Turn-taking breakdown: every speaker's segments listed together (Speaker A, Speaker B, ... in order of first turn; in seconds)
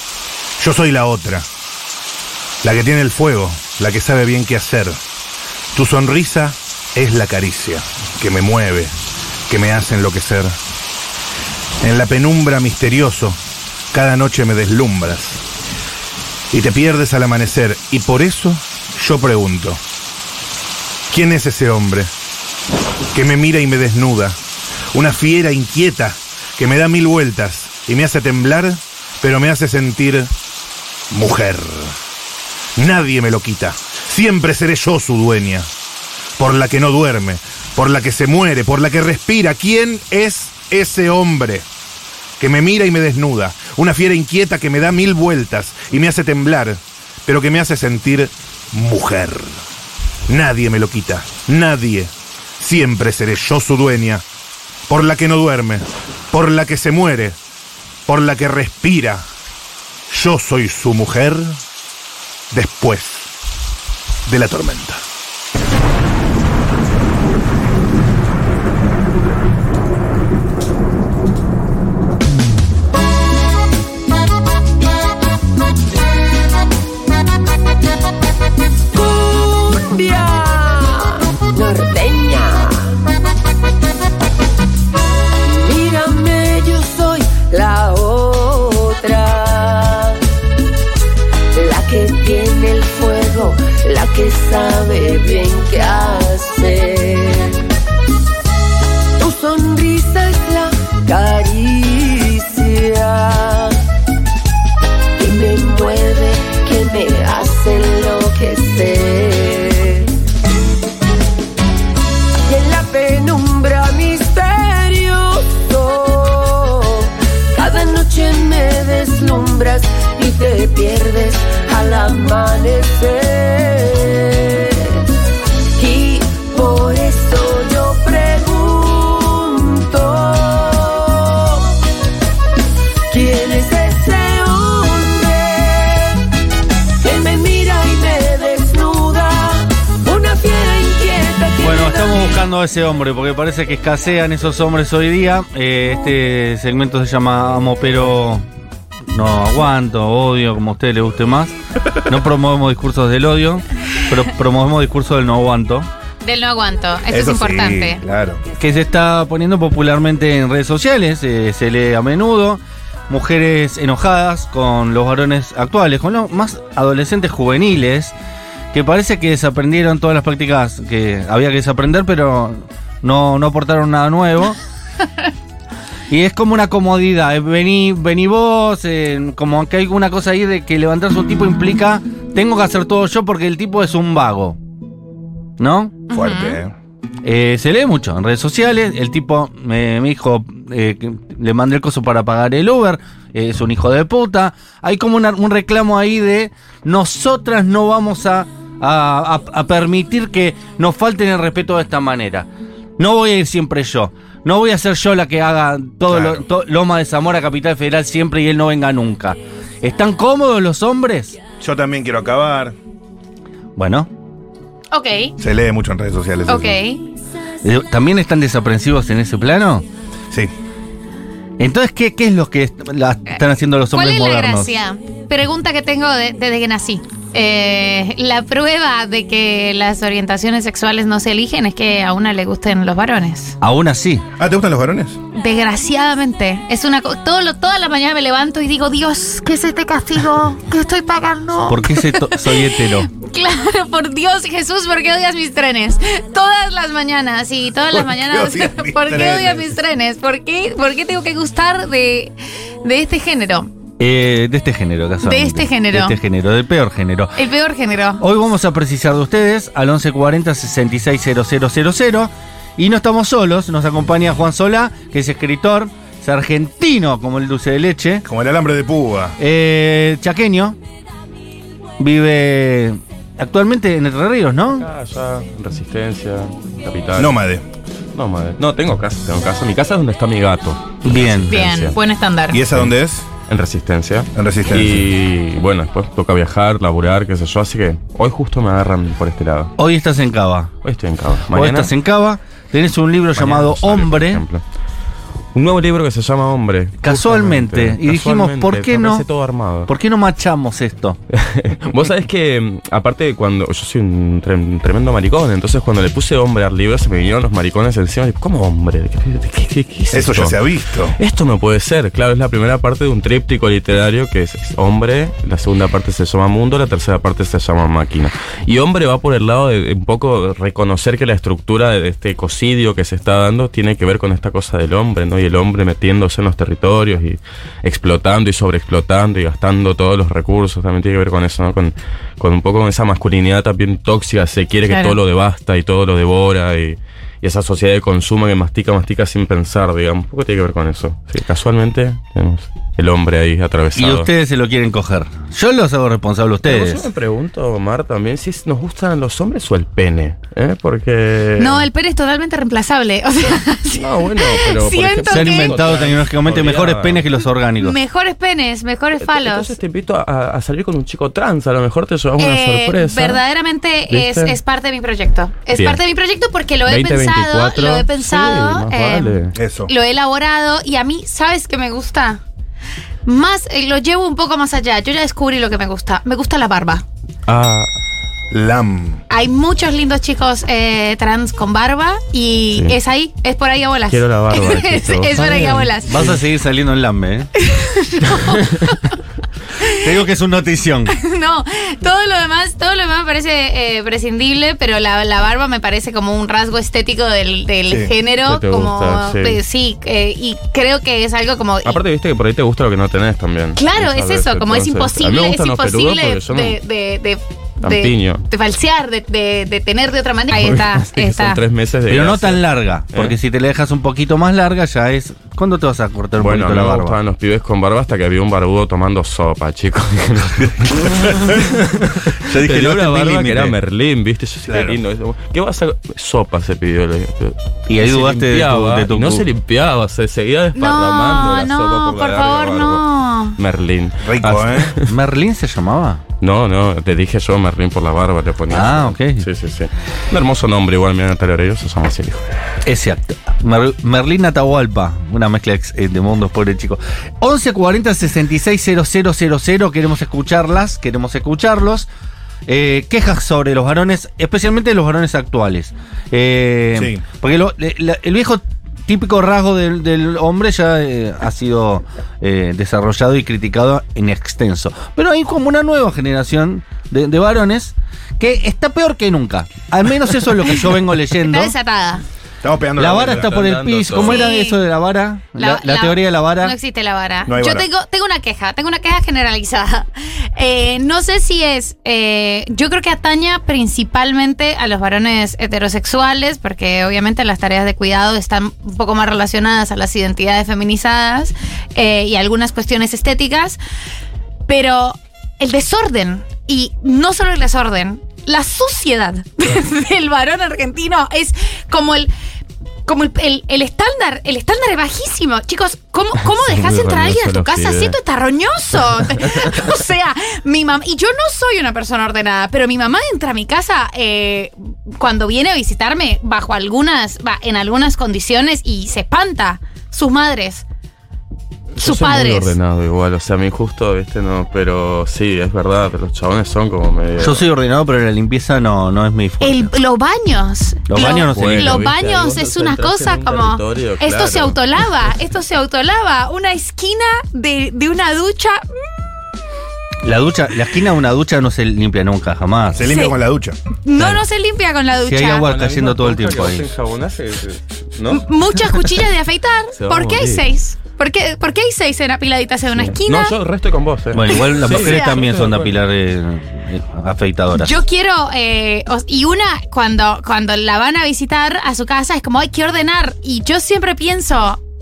Speaker A: 0.6-1.5, 2.6-5.0, 5.7-8.9, 9.5-10.6, 11.8-13.4, 13.9-15.4, 16.5-19.8, 21.1-22.1, 23.1-24.4, 24.9-30.3, 31.1-32.0, 32.8-35.7, 36.4-41.7, 42.4-49.6, 50.3-54.2, 54.9-57.4, 58.1-59.3, 60.1-61.6, 62.5-63.3, 64.3-65.0, 157.1-158.4, 186.1-186.7, 206.1-206.5, 211.6-212.8, 215.4-216.8, 234.4-235.2, 247.9-249.8, 268.2-269.4, 277.1-277.6, 282.5-283.3, 284.4-285.1, 310.1-311.2, 369.6-369.9, 378.5-379.2, 424.7-425.0, 434.2-435.0, 456.9-457.2, 472.6-473.6, 477.5-477.9, 543.0-543.8
Speaker B: 78.9-82.9, 85.5-90.2, 91.5-97.6, 99.2-103.8, 105.2-110.1, 112.5-125.0, 125.8-131.8, 133.1-136.2, 137.0-142.4
Speaker C: 141.6-148.4, 149.1-151.6, 152.1-155.9, 158.6-168.1, 168.7-174.6, 176.1-184.6, 185.6-186.0, 187.2-211.4, 213.8-214.1, 217.6-219.9, 221.6-224.7, 233.6-234.2, 241.7-243.1, 254.0-257.4, 258.2-268.2, 269.4-270.8, 272.0-274.9, 281.1-281.6, 289.8-290.7, 291.5-294.4, 297.0-299.3, 299.9-301.2, 344.0-347.1, 355.3-358.0, 386.1-387.5, 390.0-391.1, 412.1-417.2, 422.5-423.7, 427.9-429.5, 435.1-436.2, 438.7-439.5, 442.9-452.1, 452.7-471.7, 473.0-476.8, 527.4-529.9, 531.1-532.1, 540.2-543.1, 545.2-546.9, 554.3-557.9
Speaker D: 156.2-158.0, 186.1-186.6, 214.9-215.3, 216.5-217.0, 223.9-233.6, 235.3-253.7, 255.2-256.2, 257.4-258.2, 281.5-282.6, 334.9-335.2, 351.6-355.8, 357.8-359.7, 362.4-369.3, 369.9-372.4, 373.3-377.0, 379.3-386.2, 387.6-389.2, 391.1-402.0, 403.8-411.6, 430.8-433.6, 471.4-472.2, 474.1-474.8, 475.6-493.8, 494.7-502.3, 503.1-520.9, 522.0-522.8, 529.6-538.9, 543.1-543.4, 544.0-545.7, 548.3-553.5, 554.5-555.4, 557.8-564.8
Speaker E: 274.7-277.4, 278.1-282.0, 283.4-289.7, 290.8-291.9, 293.4-294.6, 295.5-299.9, 301.3-310.6, 311.2-344.3, 346.6-351.9, 354.0-357.3, 359.2-363.4, 364.1-364.6, 365.7-366.0, 366.9-369.6, 377.5-377.9, 384.1-386.4, 398.4-399.6, 401.9-406.8, 407.8-408.4, 410.5-413.4, 416.4-435.1, 436.4-442.4, 473.1-474.5, 506.4-508.2, 509.4-509.8, 522.0-527.6, 531.2-534.8, 545.6-548.5, 550.0-550.6, 553.0-556.0